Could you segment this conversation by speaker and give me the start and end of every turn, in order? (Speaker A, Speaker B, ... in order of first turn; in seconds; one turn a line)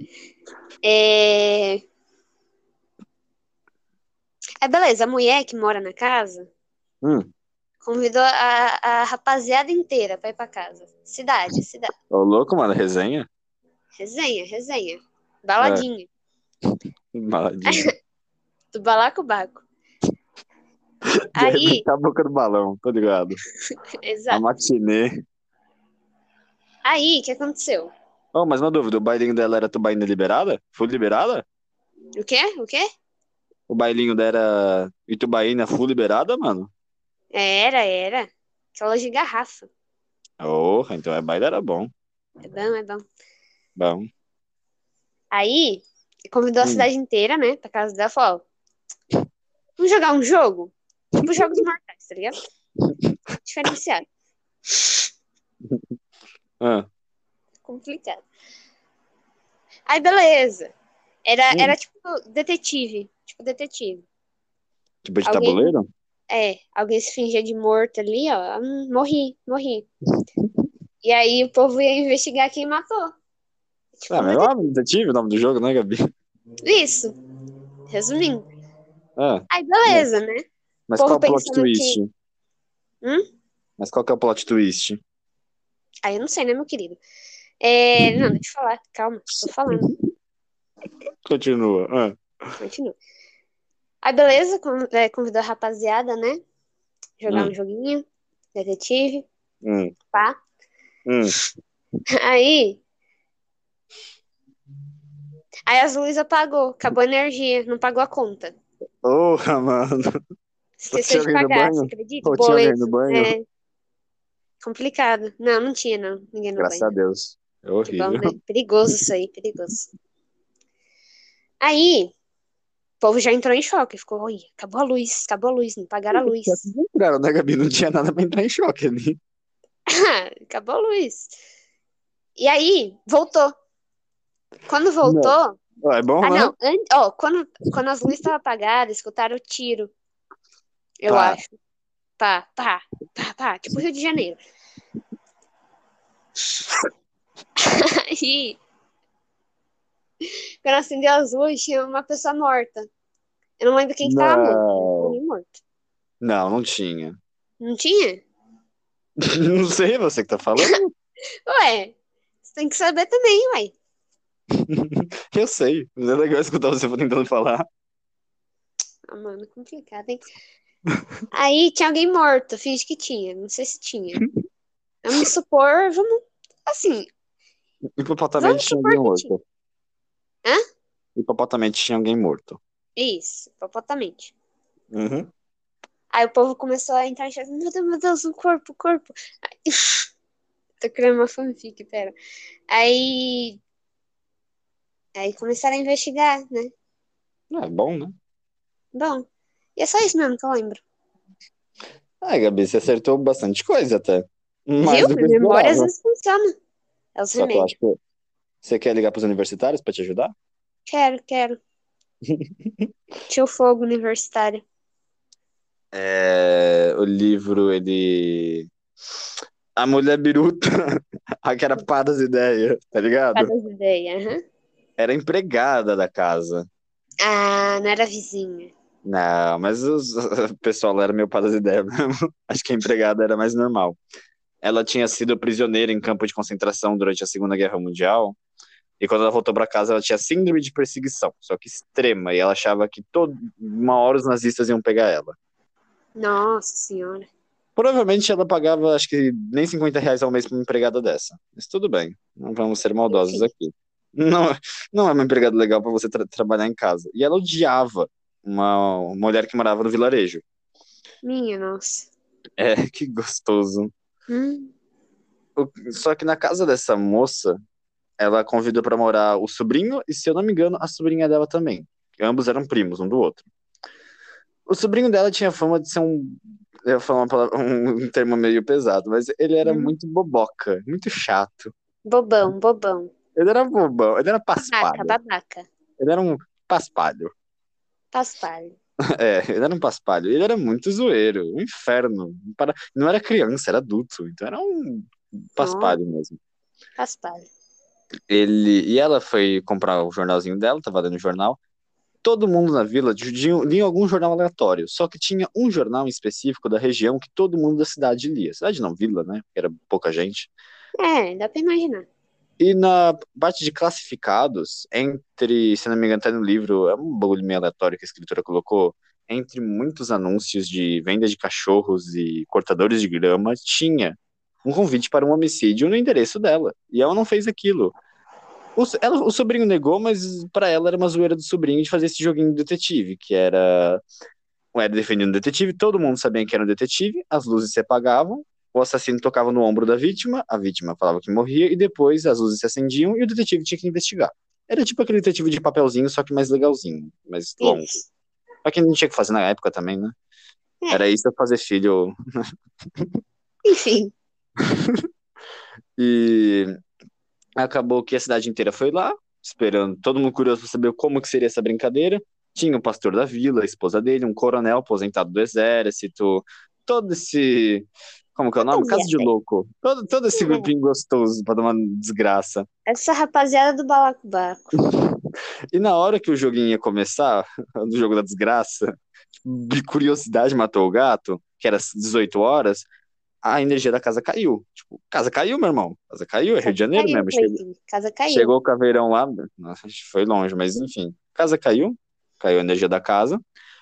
Speaker A: 0.8-1.8
Speaker A: 4.6-6.5
Speaker B: 7.0-7.3
Speaker A: 7.8-11.9
Speaker B: 12.1-13.3
Speaker A: 14.0-16.1
Speaker B: 15.6-15.8
Speaker B: 17.1-17.9
Speaker A: 18.7-19.6
Speaker A: 21.4-21.8
Speaker B: 21.4-23.4
Speaker A: 24.0-24.4
Speaker B: 24.3-25.1
Speaker A: 26.9-27.9
Speaker B: 28.3-31.4
Speaker A: 32.2-32.8
Speaker B: 33.7-36.7
Speaker A: 37.3-39.7
Speaker B: 40.4-41.9
Speaker A: 42.5-43.0
Speaker B: 43.8-44.1
Speaker A: 45.3-48.4
Speaker A: 49.8-52.4
Speaker A: 53.4-54.0
Speaker B: 56.6-56.9
Speaker A: 57.6-58.2
Speaker A: 59.9-60.7
Speaker A: 61.2-64.0
Speaker B: 65.0-65.9
Speaker A: 65.2-65.7
Speaker A: 66.3-69.9
Speaker A: 71.0-73.1
Speaker A: 74.0-74.5
Speaker B: 74.1-76.0
Speaker A: 76.6-77.1
Speaker A: 77.9-78.5
Speaker B: 79.2-80.1
Speaker A: 79.5-80.4
Speaker B: 80.9-82.1
Speaker A: 81.0-82.0
Speaker B: 83.8-85.0
Speaker A: 86.0-87.0
Speaker A: 87.6-89.9
Speaker B: 89.7-90.0
Speaker B: 91.2-92.2
Speaker A: 92.6-93.0
Speaker A: 94.0-96.4
Speaker A: 97.2-98.0
Speaker A: 98.5-99.3
Speaker B: 99.6-99.9
Speaker B: 101.0-101.3
Speaker A: 102.2-102.8
Speaker A: 105.7-108.5
Speaker B: 109.0-110.1
Speaker A: 110.8-113.4
Speaker B: 110.9-113.3
Speaker A: 114.6-116.9
Speaker B: 116.6-118.3
Speaker A: 117.8-119.9
Speaker A: 121.6-122.1
Speaker A: 123.0-126.6
Speaker B: 126.1-129.2
Speaker A: 129.9-131.3
Speaker A: 132.4-133.6
Speaker A: 134.7-135.6
Speaker B: 135.0-136.5
Speaker A: 136.2-139.9
Speaker A: 141.0-141.5
Speaker B: 141.1-141.4
Speaker A: 142.2-144.4
Speaker A: 147.7-148.6
Speaker A: 150.6-152.9
Speaker A: 153.6-155.6
Speaker B: 154.0-155.1
Speaker B: 156.2-157.2
Speaker A: 157.6-158.2
Speaker B: 159.2-160.9
Speaker A: 161.5-161.9
Speaker A: 162.4-163.7
Speaker B: 164.6-167.6
Speaker A: 169.1-170.2
Speaker A: 171.3-174.2
Speaker A: 175.0-177.1
Speaker B: 178.0-179.4
Speaker A: 178.4-179.3
Speaker B: 181.2-182.6
Speaker A: 183.0-184.3
Speaker B: 184.9-185.3
Speaker A: 186.1-190.1
Speaker A: 190.8-192.1
Speaker A: 192.7-193.6
Speaker A: 195.2-196.7
Speaker B: 197.5-198.1
Speaker A: 198.9-200.8
Speaker B: 202.2-205.9
Speaker A: 204.8-206.5
Speaker A: 207.1-207.7
Speaker B: 207.3-207.9
Speaker B: 208.6-210.3
Speaker A: 210.9-211.6
Speaker B: 212.3-212.8
Speaker A: 213.3-214.6
Speaker B: 215.9-218.7
Speaker B: 219.8-220.7
Speaker B: 221.4-223.5
Speaker A: 223.3-224.4
Speaker B: 225.0-226.7
Speaker A: 227.2-228.7
Speaker B: 229.0-234.0
Speaker B: 234.6-238.3
Speaker B: 239.0-245.3
Speaker A: 246.2-247.3
Speaker B: 247.8-260.4
Speaker A: 253.1-253.5
Speaker A: 261.2-262.1
Speaker B: 262.6-263.9
Speaker A: 264.3-264.7
Speaker B: 265.6-267.6
Speaker B: 268.2-273.5
Speaker B: 274.7-281.7
Speaker A: 279.6-279.9
Speaker A: 282.0-283.1
Speaker B: 283.3-285.1
Speaker A: 284.6-285.7
Speaker B: 286.0-287.3
Speaker A: 288.1-288.8
Speaker B: 289.2-296.4
Speaker A: 295.6-296.0
Speaker A: 297.0-297.5
Speaker B: 298.3-301.6
Speaker B: 302.2-310.5
Speaker A: 311.0-312.1
Speaker B: 312.6-327.9
Speaker B: 328.8-334.0
Speaker B: 334.7-347.9
Speaker A: 347.6-348.0
Speaker B: 348.6-350.1
Speaker B: 350.9-352.1
Speaker A: 353.6-354.1
Speaker B: 356.0-356.7
Speaker B: 357.6-372.7
Speaker A: 368.6-369.3
Speaker A: 370.3-370.7
Speaker A: 372.9-374.6
Speaker B: 375.7-378.9
Speaker B: 379.4-382.9
Speaker B: 383.4-387.6
Speaker A: 386.6-388.5
Speaker B: 388.3-393.4